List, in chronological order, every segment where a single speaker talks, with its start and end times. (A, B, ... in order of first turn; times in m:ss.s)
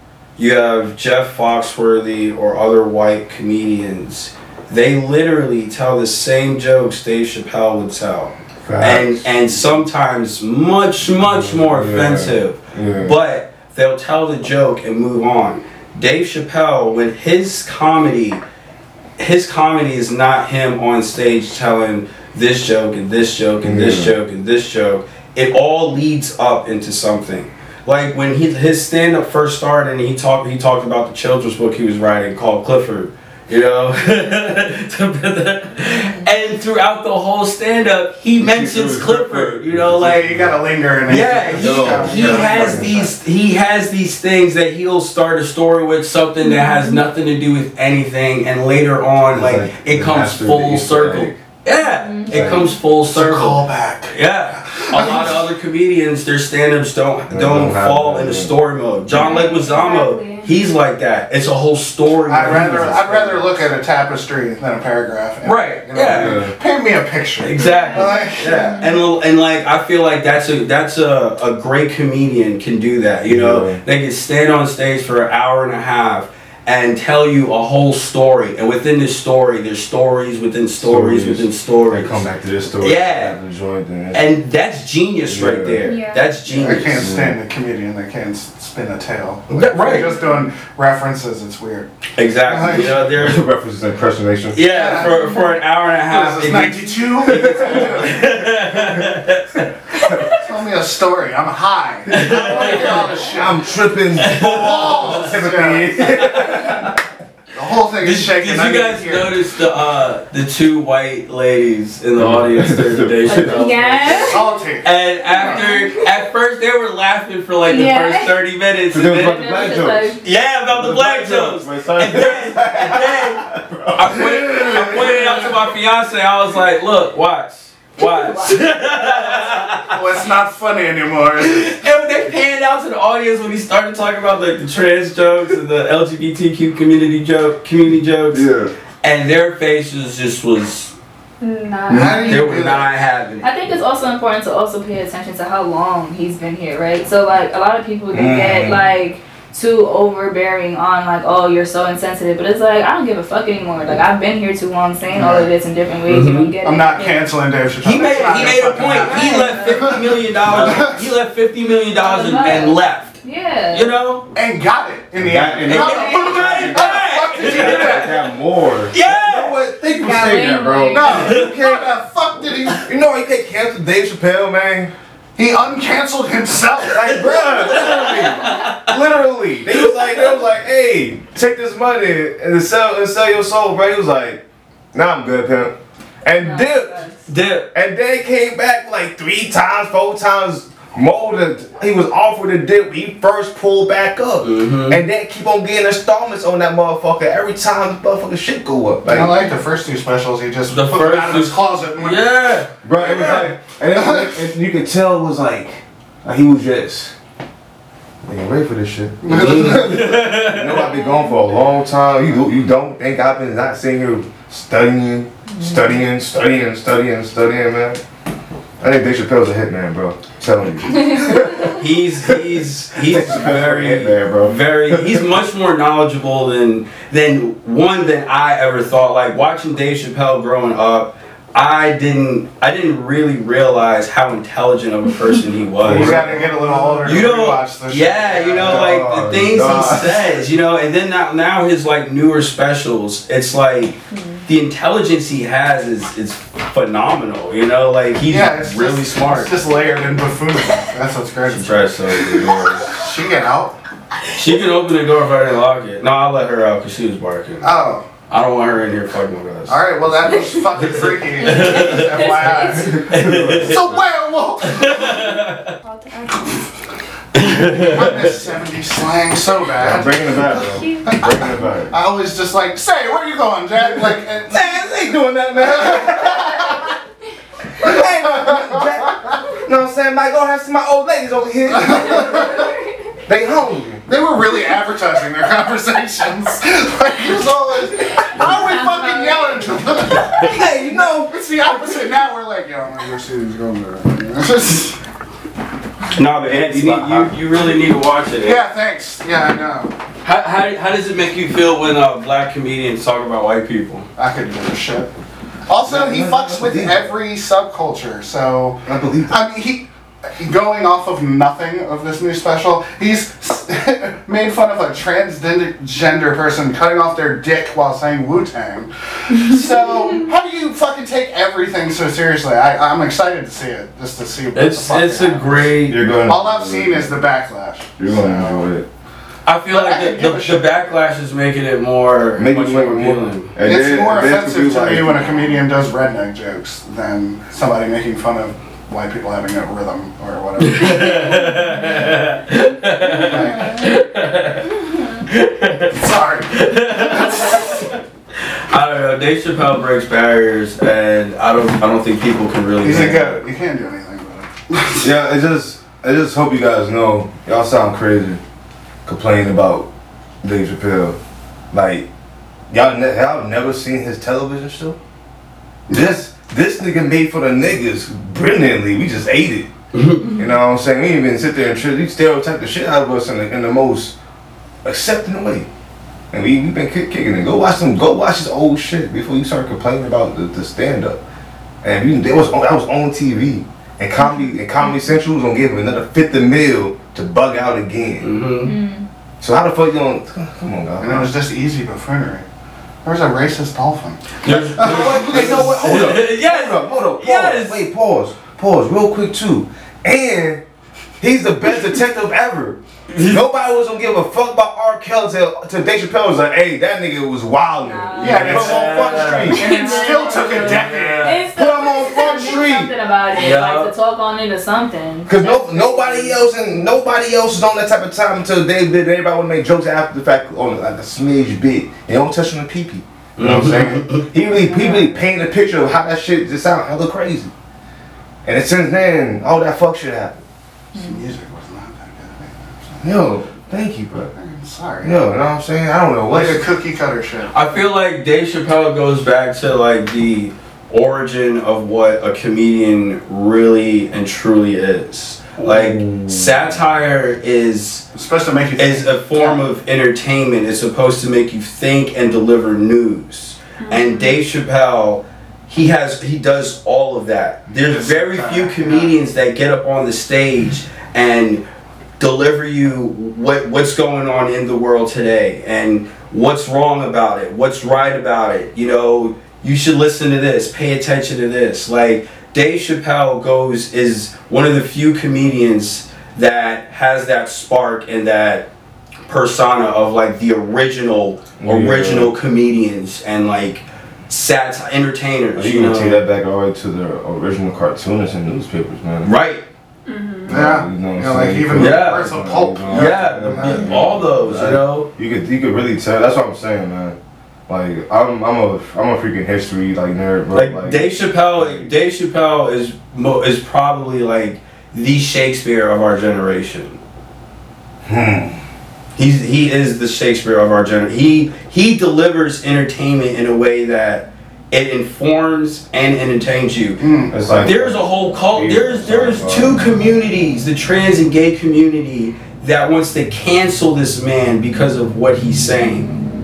0:00.4-0:18.4 A
0:08.6-0:09.3 B
0:11.2-0:13.2 B
0:19.2-0:40.3 A
0:23.6-0:24.2 B
0:38.4-0:43.0 B
0:40.0-0:43.1 C
0:41.1-1:03.5 A
0:46.4-0:47.0 D
0:49.3-0:51.4 B
0:52.0-0:52.5 D
0:52.3-0:52.7 B
0:53.1-0:55.5 C
0:57.3-0:58.5 B
0:59.1-1:00.5 E
0:59.2-0:59.6 D
1:02.3-1:08.7 C
1:05.4-1:06.4 A
1:06.1-1:06.6 B
1:07.4-1:22.3 A
1:07.7-1:08.2 E
1:08.0-1:08.6 D
1:13.2-1:13.8 B
1:20.8-1:24.3 B
1:22.8-1:23.4 A
1:24.1-1:27.1 A
1:25.3-1:25.9 B
1:25.8-1:26.3 E
1:26.5-1:31.9 C
1:26.9-1:27.4 B
1:29.5-1:30.2 A
1:32.2-1:33.4 A
1:32.4-1:33.0 C
1:33.0-1:34.7 B
1:34.5-1:39.7 A
1:34.7-1:35.2 C
1:35.1-1:35.6 D
1:36.1-1:38.5 C
1:37.3-1:39.2 B
1:40.2-1:46.1 C
1:42.1-1:43.2 A
1:43.4-1:47.0 B
1:44.2-1:45.3 A
1:46.1-1:46.8 A
1:47.5-1:49.4 C
1:48.0-1:54.3 A
1:52.2-1:54.4 B
1:53.3-1:54.4 D
1:54.2-1:54.9 C
1:54.8-1:59.4 A
1:55.4-1:56.0 D
1:57.7-1:58.3 D
1:58.9-2:05.6 B
1:59.0-2:00.2 D
2:00.2-2:10.0 A
2:04.3-2:05.5 C
2:08.0-2:09.7 D
2:09.9-2:11.8 C
2:11.4-2:18.5 A
2:18.3-2:18.7 B
2:19.0-2:21.0 A
2:21.4-2:22.3 E
2:21.9-2:22.2 B
2:21.9-2:22.9 C
2:22.3-2:23.5 A
2:23.4-2:37.3 D
2:28.1-2:28.9 B
2:35.1-2:35.5 C
2:36.1-2:36.6 A
2:36.6-2:41.1 C
2:37.8-2:43.2 A
2:38.0-2:40.0 D
2:42.0-2:43.9 D
2:43.7-2:44.2 A
2:44.3-2:48.2 C
2:45.2-2:51.9 B
2:45.7-2:48.2 A
2:48.9-2:49.6 A
2:49.9-2:51.3 D
2:50.9-2:52.8 C
2:51.2-2:51.4 A
2:52.7-2:54.9 B
2:55.4-2:57.8 C
2:56.8-3:04.4 B
2:57.6-2:59.0 A
2:59.7-3:00.1 A
3:04.9-3:07.0 B
3:06.3-3:07.2 D
3:07.3-3:07.7 A
3:07.7-3:19.4 B
3:14.4-3:15.0 A
3:19.1-3:22.3 C
3:20.7-3:23.4 A
3:22.8-3:27.2 B
3:23.0-3:24.4 C
3:28.2-3:38.0 B
3:29.2-3:29.9 C
3:29.3-3:30.9 A
3:38.8-3:45.3 B
3:41.7-3:56.4 A
3:55.8-3:57.2 B
3:55.8-3:58.9 C
3:57.0-4:09.7 A
3:58.6-4:00.2 B
4:08.2-4:13.8 C
4:11.5-4:13.0 A
4:12.4-4:12.7 B
4:14.3-4:17.7 A
4:17.6-4:18.1 C
4:18.3-4:24.0 A
4:19.7-4:25.3 C
4:22.9-4:23.8 B
4:24.6-4:25.7 A
4:25.8-4:26.7 E
4:27.3-4:28.4 A
4:27.4-4:34.9 C
4:29.8-4:31.9 B
4:30.6-4:31.3 E
4:34.5-4:36.9 B
4:35.6-4:36.9 C
4:37.8-4:42.6 B
4:37.8-4:38.9 C
4:41.7-4:42.7 C
4:43.3-4:44.0 B
4:44.1-4:50.7 C
4:49.0-4:49.3 D
4:50.3-4:52.1 B
4:51.3-4:55.0 C
4:56.1-4:58.6 A
4:56.4-4:57.4 B
4:58.4-5:00.0 C
5:00.2-5:04.1 A
5:04.2-5:05.1 C
5:05.7-5:09.9 C
5:05.8-5:07.1 B
5:08.9-5:09.4 B
5:10.4-5:28.7 C
5:24.5-5:26.0 A
5:25.9-5:27.2 B
5:28.0-5:28.9 B
5:29.5-5:33.5 A
5:29.7-5:30.7 C
5:32.4-5:35.3 B
5:33.6-5:41.5 C
5:40.6-5:53.4 A
5:43.0-5:43.9 C
5:45.9-5:47.9 C
5:52.8-5:55.1 C
5:55.0-5:58.4 B
5:59.0-5:59.9 B
6:00.4-6:01.2 B
6:01.7-6:02.1 B
6:02.7-6:05.0 B
6:05.9-6:09.7 B
6:09.9-6:10.3 A
6:10.3-6:14.2 B
6:14.8-6:15.7 B
6:16.3-6:21.2 B
6:21.8-6:28.3 B
6:28.2-6:28.7 A
6:28.6-6:29.1 D
6:29.4-6:31.3 B
6:31.0-6:32.5 C
6:33.0-6:35.9 C
6:34.4-6:37.8 A
6:34.8-6:40.6 B
6:41.2-6:49.7 B
6:43.1-6:43.4 A
6:47.8-6:48.7 D
6:48.2-6:51.4 C
6:48.3-6:49.7 A
6:49.5-6:56.4 D
6:49.6-6:49.9 E
6:50.3-6:51.5 A
6:51.5-6:52.9 B
6:53.4-6:53.9 A
6:55.3-7:07.5 B
7:03.4-7:04.3 A
7:04.5-7:05.1 D
7:08.4-7:10.4 B
7:10.9-7:13.1 C
7:13.0-7:14.3 B
7:14.3-7:15.2 C
7:15.0-7:16.6 B
7:16.3-7:17.6 C
7:17.5-7:28.1 A
7:25.6-7:26.8 B
7:28.2-7:29.7 C
7:28.8-7:41.6 A
7:33.8-7:34.4 E
7:37.7-7:39.2 C
7:42.2-7:58.7 A
7:59.3-8:06.2 A
8:01.6-8:02.4 B
8:05.6-8:09.3 B
8:09.2-8:09.6 A
8:10.1-8:10.5 E
8:10.5-8:17.2 B
8:10.5-8:14.2 C
8:11.8-8:12.3 A
8:12.8-8:15.1 A
8:17.7-8:21.9 B
8:20.5-8:27.0 A
8:28.0-8:28.6 B
8:29.2-8:46.1 A
8:37.0-8:37.5 C
8:37.3-8:39.8 B